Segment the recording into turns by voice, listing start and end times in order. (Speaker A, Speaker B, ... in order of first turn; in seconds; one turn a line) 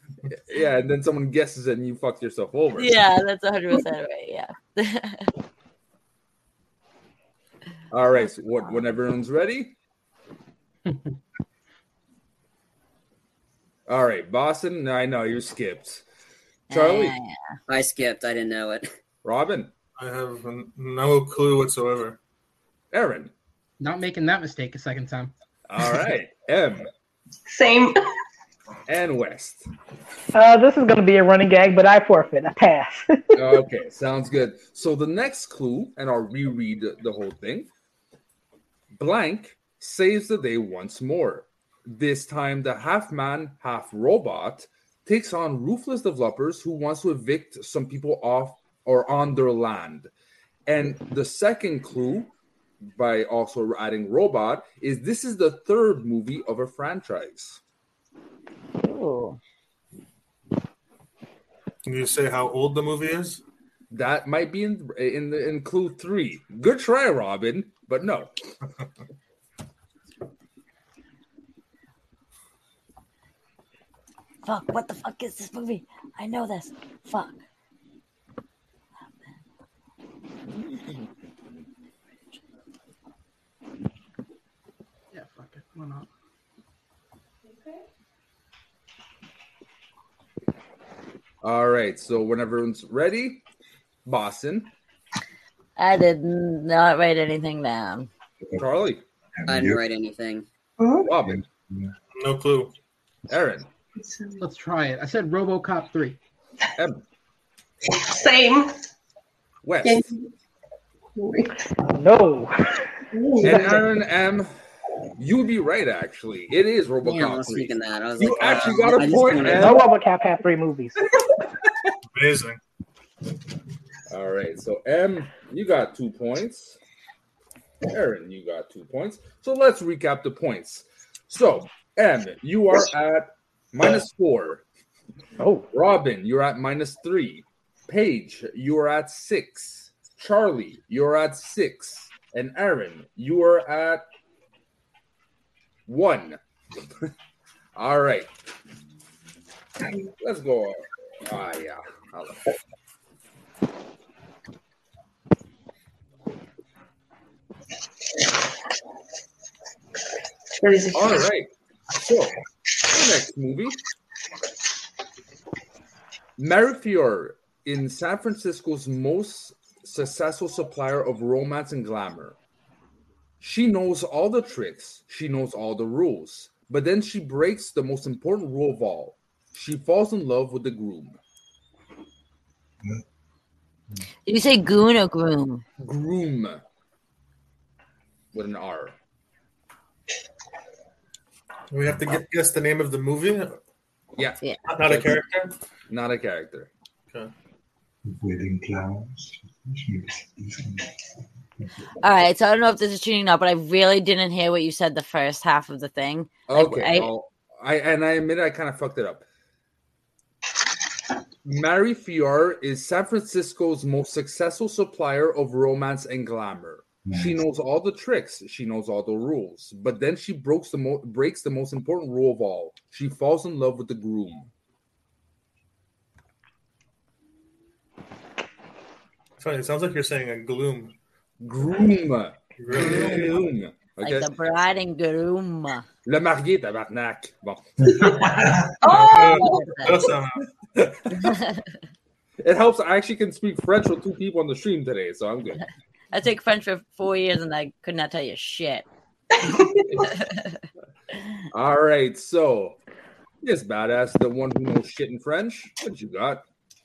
Speaker A: 0.3-3.0
Speaker B: 2.8-5.3
Speaker A: 7.9-9.8
Speaker A: 13.9-16.0
Speaker A: 16.7-17.1
Speaker B: 16.7-17.3
Speaker C: 17.7-18.9
Speaker A: 19.2-19.7
Speaker D: 20.0-22.2
Speaker A: 22.9-23.3
Speaker E: 23.8-25.3
Speaker A: 25.7-26.9
Speaker F: 27.5-28.0
Speaker A: 28.9-29.7
Speaker G: 30.3-33.4
Speaker A: 33.3-37.7
Speaker A: 38.9-50.1
Speaker A: 50.7-52.3
Speaker A: 52.9-57.6
Speaker B: 58.8-59.4
Speaker D: 61.8-63.4
Speaker A: 63.9-68.3
Speaker B: 74.4-77.4
Speaker A: 80.5-81.1
Speaker E: 85.1-86.1
Speaker A: 91.4-93.4
Speaker A: 94.0-94.7
Speaker B: 95.8-98.1
Speaker H: 98.4-98.7
Speaker A: 98.6-99.0
Speaker H: 99.4-99.8
Speaker C: 99.5-100.4
Speaker F: 100.8-101.1
Speaker A: 101.0-101.4
Speaker H: 101.2-101.9
Speaker D: 102.1-102.7
Speaker A: 103.3-103.7
Speaker F: 104.0-104.4
Speaker E: 104.4-106.2
Speaker A: 106.8-107.0
Speaker F: 107.8-108.7
Speaker A: 109.6-110.1
Speaker F: 109.8-110.3
Speaker F: 111.2-111.6
Speaker G: 111.9-112.8
Speaker F: 113.1-113.8
Speaker A: 113.4-114.5
Speaker A: 115.2-119.8
Speaker C: 117.0-119.8
Speaker G: 119.4-121.0
Speaker D: 122.1-122.6
Speaker A: 124.1-126.8
Speaker A: 127.8-134.6
Speaker G: 135.4-135.7
Speaker A: 135.7-144.0
Speaker A: 145.9-146.4
Speaker A: 147.8-148.3
Speaker A: 150.2-152.4
Speaker F: 160.6-161.3
Speaker A: 160.9-163.8
Speaker A: 166.4-172.3
Speaker A: 173.4-181.2
Speaker B: 184.2-185.6
Speaker A: 185.8-186.6
Speaker A: 188.3-189.0
Speaker D: 191.7-193.6
Speaker A: 194.2-195.2
Speaker D: 194.7-195.5
Speaker A: 195.9-196.7
Speaker H: 198.1-200.9
Speaker B: 202.0-207.1
Speaker A: 206.5-209.2
Speaker A: 211.4-224.5
Speaker H: 217.1-217.4
Speaker D: 229.4-230.9
Speaker A: 231.4-234.3
Speaker D: 232.6-233.4
Speaker B: 234.0-235.8
Speaker A: 236.0-237.9
Speaker H: 237.8-238.8
Speaker F: 238.8-240.1
Speaker D: 238.8-240.5
Speaker B: 239.3-240.0
Speaker A: 240.8-241.3
Speaker B: 241.1-241.7
Speaker A: 242.4-245.6
Speaker B: 246.1-248.8
Speaker F: 249.4-250.0
Speaker B: 250.1-250.6
Speaker A: 251.5-252.8
Speaker A: 253.4-256.4